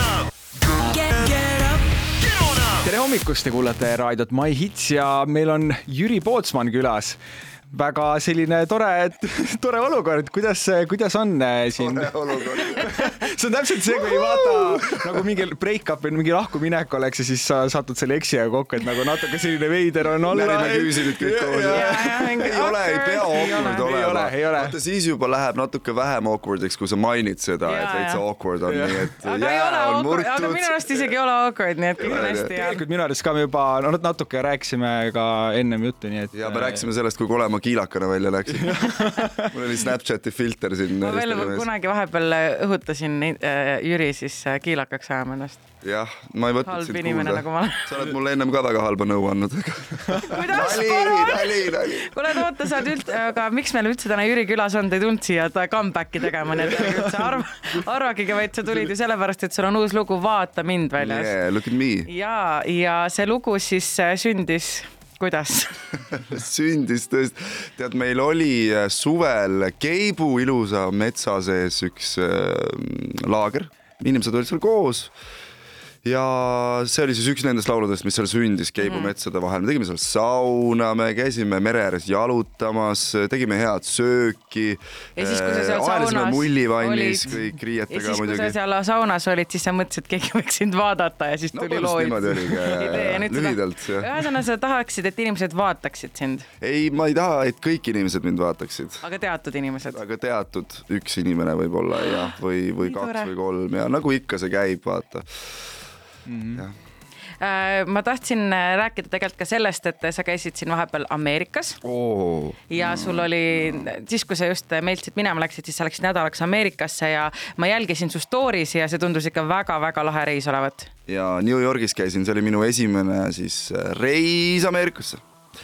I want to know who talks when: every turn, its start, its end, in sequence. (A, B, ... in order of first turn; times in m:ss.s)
0:01.0-0:01.8 A
0:02.8-0:07.2 A
0:07.7-0:22.4 A
0:11.8-0:13.0 B
0:14.2-0:15.1 B
0:20.2-0:30.9 B
0:21.7-0:23.9 C
0:23.4-0:24.8 A
0:27.6-0:28.2 C
0:28.6-0:29.2 A
0:29.2-0:32.8 C
0:32.0-0:32.5 B
0:32.0-0:36.8 A
0:36.3-0:41.7 B
0:38.6-0:39.5 A
0:41.0-0:45.6 C
0:45.8-0:52.4 B
0:46.6-0:47.9 C
0:50.2-1:01.4 C
1:01.0-1:02.1 B
1:02.1-1:05.8 C
1:06.1-1:15.1 B
1:16.0-1:28.6 B
1:18.8-1:19.1 C
1:25.2-1:36.5 C
1:31.5-1:34.1 B
1:36.6-1:39.0 B
1:39.0-1:40.0 C
1:39.9-1:45.2 B
1:42.0-1:43.3 C
1:46.3-1:46.6 A
1:47.4-1:51.8 C
1:51.8-1:53.9 B
1:52.7-2:00.9 C
2:01.1-2:05.2 B